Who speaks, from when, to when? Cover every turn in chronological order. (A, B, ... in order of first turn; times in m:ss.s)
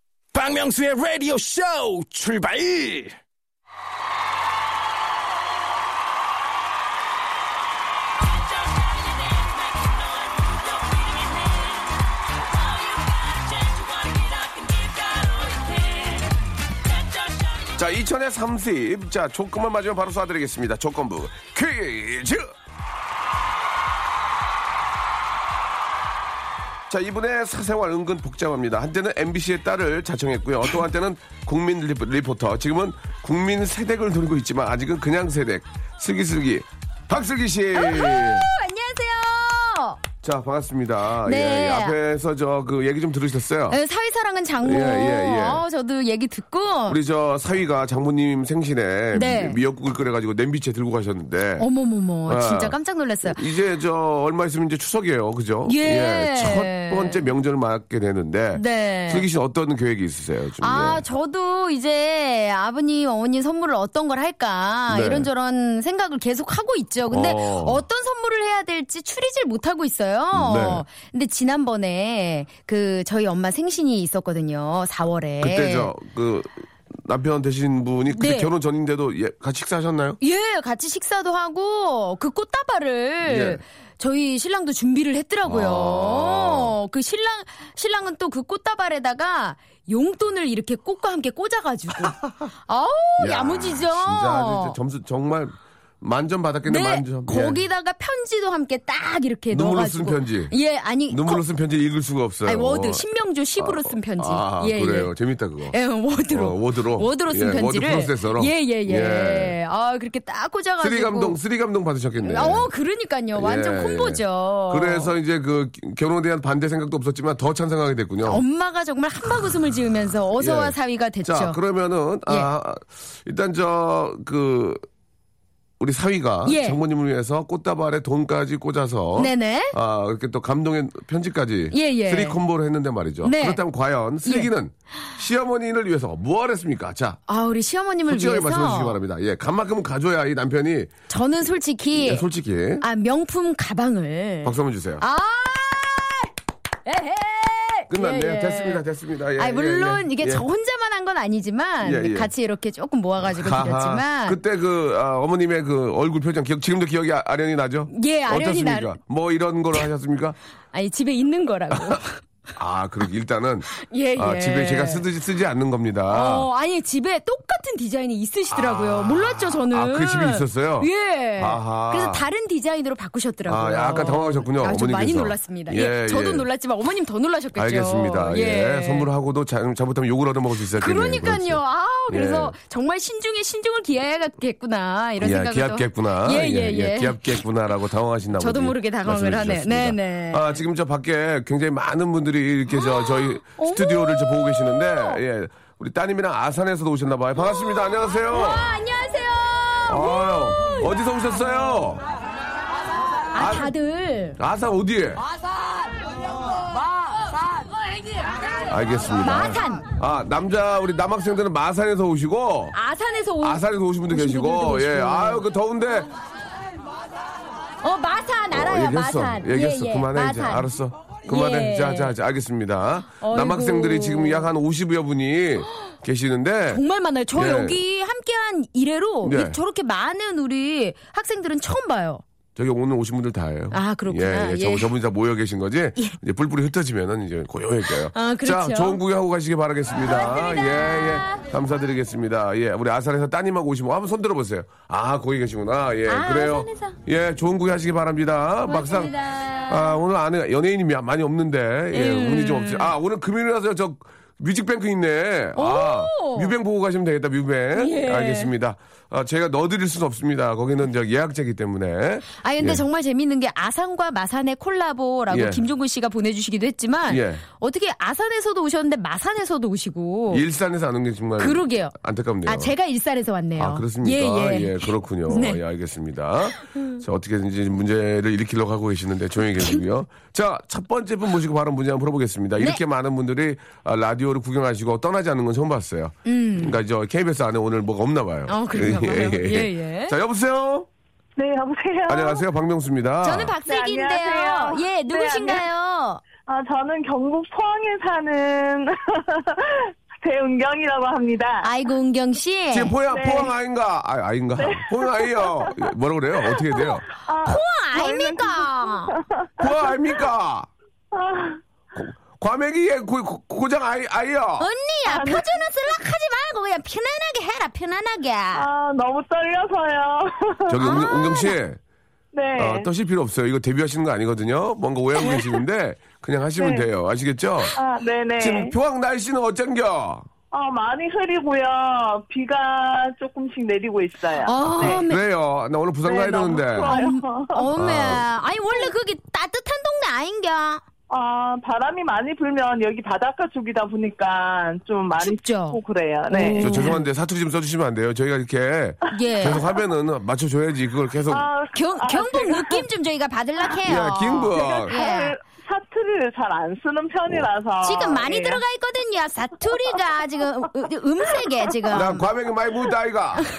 0:00.3-0:03.2 A
0:17.7-0:22.5 B
0:26.9-0:38.5 B
0:37.7-0:40.0 C
0:40.2-0:43.8 B
0:41.2-0:42.0 C
0:43.7-0:47.0 C
0:44.6-0:45.6 B
0:46.9-0:51.7 B
0:49.1-0:49.6 C
0:51.6-0:53.4 C
0:52.3-1:01.0 B
0:55.7-0:57.2 C
0:58.5-0:59.3 C
1:00.6-1:15.9 C
1:04.9-1:05.3 B
1:07.1-1:07.8 B
1:10.3-1:10.8 B
1:15.4-1:20.2 B
1:18.1-1:18.5 C
1:20.2-1:34.8 C
1:23.2-1:23.6 B
1:25.4-1:26.7 B
1:33.2-1:37.6 B
1:36.7-1:41.4 C
1:39.5-1:40.5 B
1:41.1-1:43.0 B
1:42.4-1:45.1 C
1:43.6-1:45.8 B
1:45.7-1:51.4 C
1:46.3-1:49.6 B
1:50.8-1:52.7 B
1:52.2-1:55.1 C
1:53.3-1:58.4 B
1:58.2-2:01.6 C
2:00.4-2:04.8 B
2:05.8-2:17.2 B
2:06.4-2:06.8 C
2:09.1-2:09.8 C
2:11.7-2:12.4 C
2:13.2-2:13.6 C
2:14.2-2:14.5 C
2:17.3-2:19.0 C
2:18.1-2:20.9 B
2:21.1-2:22.2 C
2:21.9-2:22.8 B
2:22.8-2:26.3 C
2:24.4-2:25.0 B
2:26.8-2:28.8 C
2:27.9-2:30.4 B
2:29.4-2:34.4 C
2:31.8-2:32.3 B
2:33.2-2:40.4 B
2:37.9-2:39.0 C
2:40.7-2:42.2 C
2:42.6-2:46.5 B
2:43.8-2:45.0 C
2:46.1-2:59.1 C
2:48.5-2:52.2 B
2:53.5-2:56.5 B
2:57.6-3:02.5 B
3:00.7-3:07.4 C
3:05.2-3:18.7 B
3:08.4-3:10.6 C
3:12.7-3:15.2 C
3:17.4-3:17.8 C
3:18.3-3:20.9 C
3:19.9-3:22.0 B
3:23.3-3:24.4 C
3:23.3-3:23.7 B
3:24.4-3:25.2 B
3:28.7-3:32.8 B
3:29.2-3:29.8 C
3:32.7-3:35.4 C
3:33.4-3:36.1 B
3:37.8-3:40.7 C
3:38.5-3:46.8 B
3:41.2-3:42.1 C
3:43.2-3:44.5 C
3:46.7-3:52.2 C
3:47.3-3:47.8 B
3:49.2-3:49.6 B
3:52.6-4:09.1 B
3:53.7-3:54.9 C
3:58.1-3:59.0 C
4:00.0-4:01.4 C
4:06.1-4:07.0 C
4:08.7-4:10.0 C
4:09.7-4:22.8 B
4:11.9-4:12.9 C
4:15.6-4:16.5 C
4:17.7-4:18.5 C
4:22.4-4:30.4 C
4:25.3-4:25.6 B
4:27.1-4:27.4 B
4:30.3-4:32.7 B
4:31.4-4:35.6 C
4:33.6-4:50.9 B
4:46.2-4:46.8 C
4:48.5-4:50.2 C
4:51.4-4:52.4 D
4:52.1-4:53.5 B
4:53.2-4:56.2 C
4:53.7-4:55.6 D
4:56.4-5:01.7 D
5:01.6-5:02.9 C
5:02.7-5:07.0 B
5:03.1-5:03.5 D
5:04.6-5:05.8 D
5:06.8-5:09.9 D
5:07.4-5:09.2 C
5:09.6-5:10.7 B
5:11.1-5:11.6 D
5:11.9-5:14.7 B
5:14.6-5:18.6 C
5:15.0-5:15.4 D
5:18.5-5:21.1 D
5:20.7-5:21.8 B
5:20.8-5:21.4 C
5:22.3-5:22.9 D
5:22.6-5:27.7 B
5:26.6-5:26.9 D
5:27.7-5:28.7 D
5:28.4-5:30.3 B
5:30.5-5:35.0 D
5:34.4-5:35.2 C
5:34.7-5:36.9 B
5:36.0-5:37.7 D
5:36.8-5:40.8 C
5:37.8-5:38.2 B
5:41.1-5:47.0 D
5:45.2-5:47.0 C
5:46.6-5:51.5 B
5:49.1-5:49.6 C
5:51.3-5:52.8 D
5:51.7-5:55.4 C
5:53.8-5:54.9 B
5:54.5-5:58.6 D
5:57.8-6:02.3 C
5:59.7-6:00.0 D
6:01.9-6:03.5 B